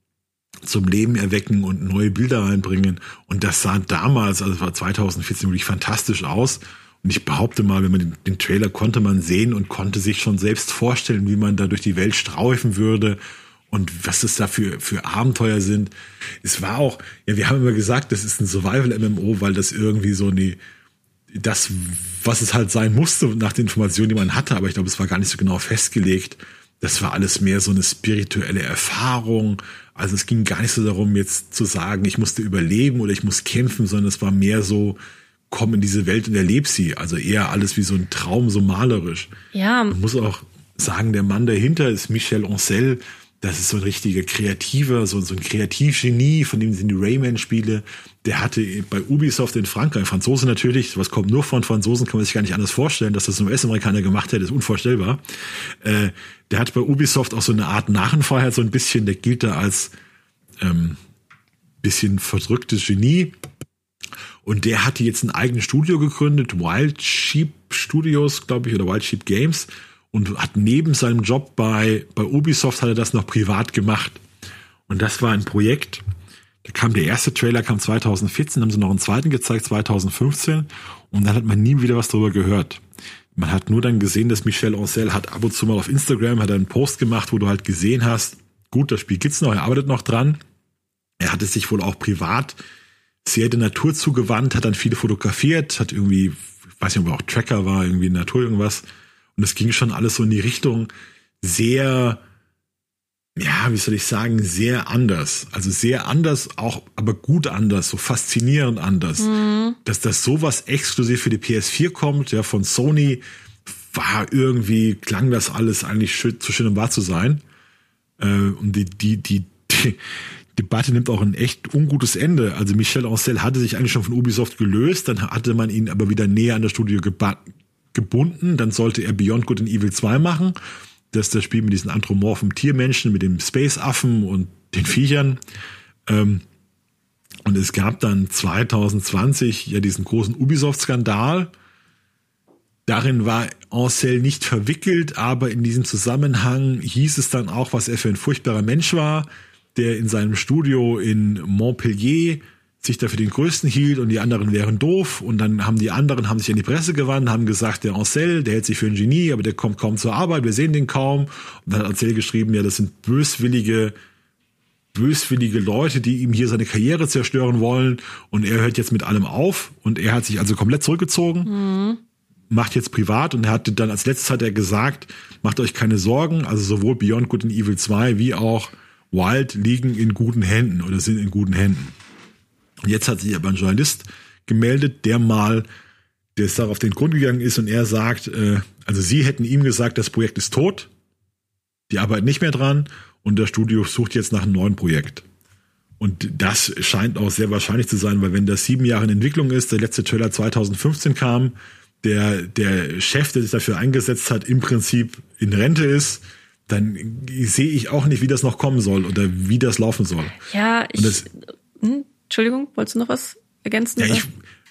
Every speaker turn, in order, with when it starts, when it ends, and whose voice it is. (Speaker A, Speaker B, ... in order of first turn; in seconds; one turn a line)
Speaker A: 0.6-13.2
Speaker A: 13.7-15.9
Speaker A: 16.4-20.6
Speaker A: 21.3-35.0
Speaker A: 35.5-39.3
Speaker B: 39.5-40.0
Speaker A: 39.9-55.2
Speaker A: 55.8-59.9
Speaker A: 60.6-61.0
Speaker A: 61.8-63.3
Speaker A: 64.4-74.2
Speaker A: 74.9-76.0
Speaker A: 76.6-82.8
Speaker A: 83.3-90.4
Speaker A: 91.2-92.6
Speaker A: 93.2-98.8
Speaker A: 99.3-100.9
Speaker A: 101.4-102.2
Speaker A: 103.3-109.3
Speaker B: 109.2-109.8
Speaker A: 109.8-117.4
Speaker A: 118.2-120.0
Speaker A: 120.5-127.4
Speaker A: 127.9-130.5
Speaker A: 131.1-135.4
Speaker A: 136.1-136.4
Speaker A: 137.4-141.5
Speaker A: 142.9-163.9
Speaker A: 164.9-171.5
Speaker B: 171.4-172.0
Speaker A: 172.5-181.9
Speaker A: 182.8-185.7
Speaker A: 186.3-190.9
Speaker A: 191.9-195.2
Speaker A: 196.0-210.3
Speaker B: 210.5-214.2
Speaker A: 211.0-211.3
Speaker A: 214.0-214.3